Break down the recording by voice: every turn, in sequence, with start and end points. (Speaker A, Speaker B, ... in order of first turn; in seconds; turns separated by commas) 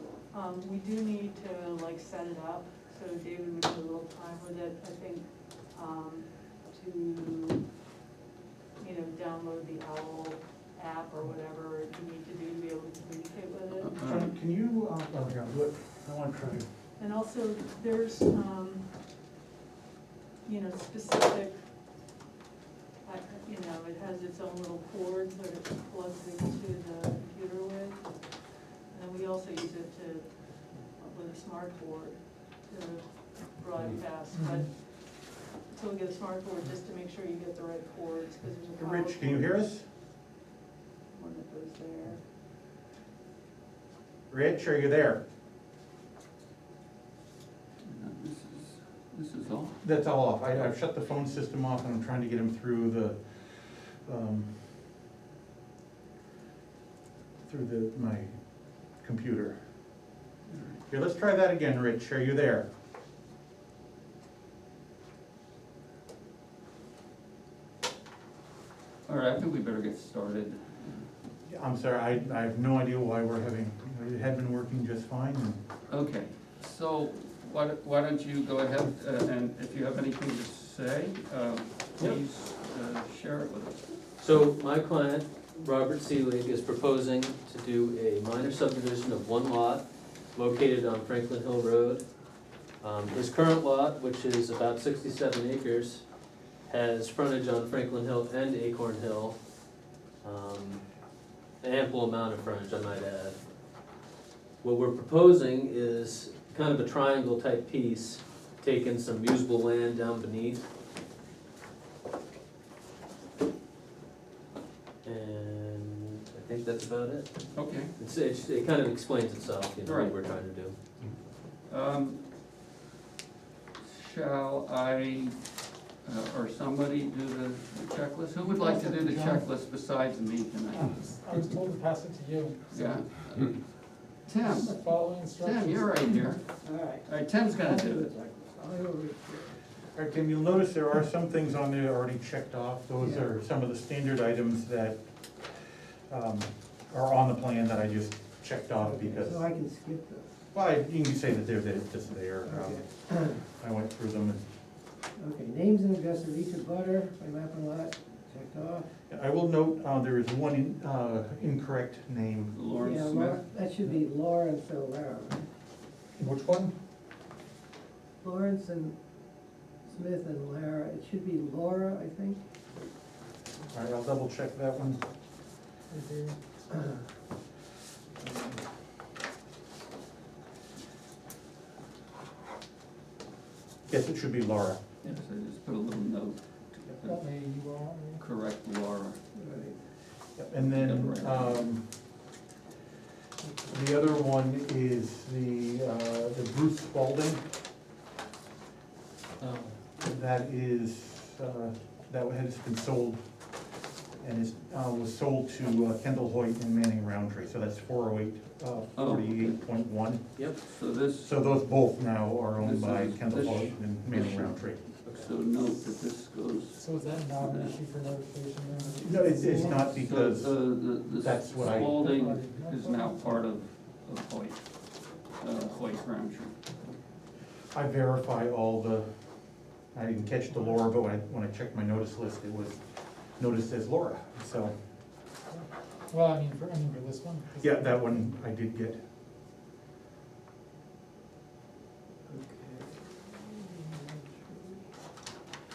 Speaker A: 0.3-7.7, Speaker A: 8.8-14.0, Speaker B: 13.8-14.3, Speaker C: 14.1-16.7, Speaker A: 17.0-18.8, Speaker A: 20.4-21.6, Speaker A: 23.0-28.1, Speaker A: 28.9-39.5, Speaker D: 34.3-34.7, Speaker C: 38.8-39.9, Speaker A: 41.1-42.2, Speaker C: 44.3-45.2, Speaker B: 47.9-50.7, Speaker C: 49.8-54.5, Speaker C: 57.5-58.4, Speaker C: 59.0-59.6, Speaker B: 60.5-60.8, Speaker C: 60.9-62.7, Speaker B: 69.1-71.1, Speaker C: 71.5-75.6, Speaker B: 75.9-84.1, Speaker E: 84.2-92.0, Speaker E: 92.8-96.0, Speaker E: 96.7-99.4, Speaker E: 100.2-100.8, Speaker E: 101.6-103.4, Speaker E: 104.6-110.6, Speaker E: 115.0-120.8, Speaker B: 117.5-118.0, Speaker B: 119.8-120.3, Speaker B: 121.7-122.2, Speaker B: 123.8-125.4, Speaker B: 126.0-131.4, Speaker D: 128.4-129.5, Speaker D: 130.7-133.0, Speaker B: 132.7-136.4, Speaker D: 134.4-136.0, Speaker F: 136.6-139.6, Speaker B: 137.0-138.1, Speaker C: 139.9-145.0, Speaker F: 143.0-143.3, Speaker C: 146.1-149.4, Speaker F: 148.8-150.3, Speaker C: 150.5-152.9, Speaker F: 152.5-153.4, Speaker C: 153.5-154.4, Speaker F: 155.2-158.9, Speaker C: 159.1-162.6, Speaker B: 162.5-163.4, Speaker F: 162.8-165.5, Speaker D: 166.2-166.7, Speaker F: 168.2-168.9, Speaker F: 169.8-172.4, Speaker C: 173.7-175.0, Speaker D: 175.9-176.4, Speaker F: 178.2-178.6, Speaker C: 183.9-184.8, Speaker B: 185.0-187.2, Speaker D: 187.0-188.2, Speaker B: 188.2-189.2, Speaker F: 189.3-189.8, Speaker C: 190.4-191.9, Speaker B: 190.6-191.7, Speaker C: 193.7-197.4, Speaker E: 199.4-199.8, Speaker C: 200.0-203.2, Speaker C: 204.2-210.5, Speaker B: 208.9-209.6, Speaker B: 210.6-211.4, Speaker C: 211.2-214.9, Speaker B: 212.6-217.8, Speaker E: 215.1-215.3, Speaker D: 216.8-219.8, Speaker F: 218.9-219.8, Speaker C: 219.0-222.0, Speaker B: 219.8-224.6, Speaker D: 221.6-223.4, Speaker B: 225.4-226.6, Speaker C: 227.7-229.1, Speaker C: 229.9-232.8, Speaker C: 233.4-234.7, Speaker D: 235.5-238.2, Speaker C: 237.6-239.0, Speaker F: 242.3-244.8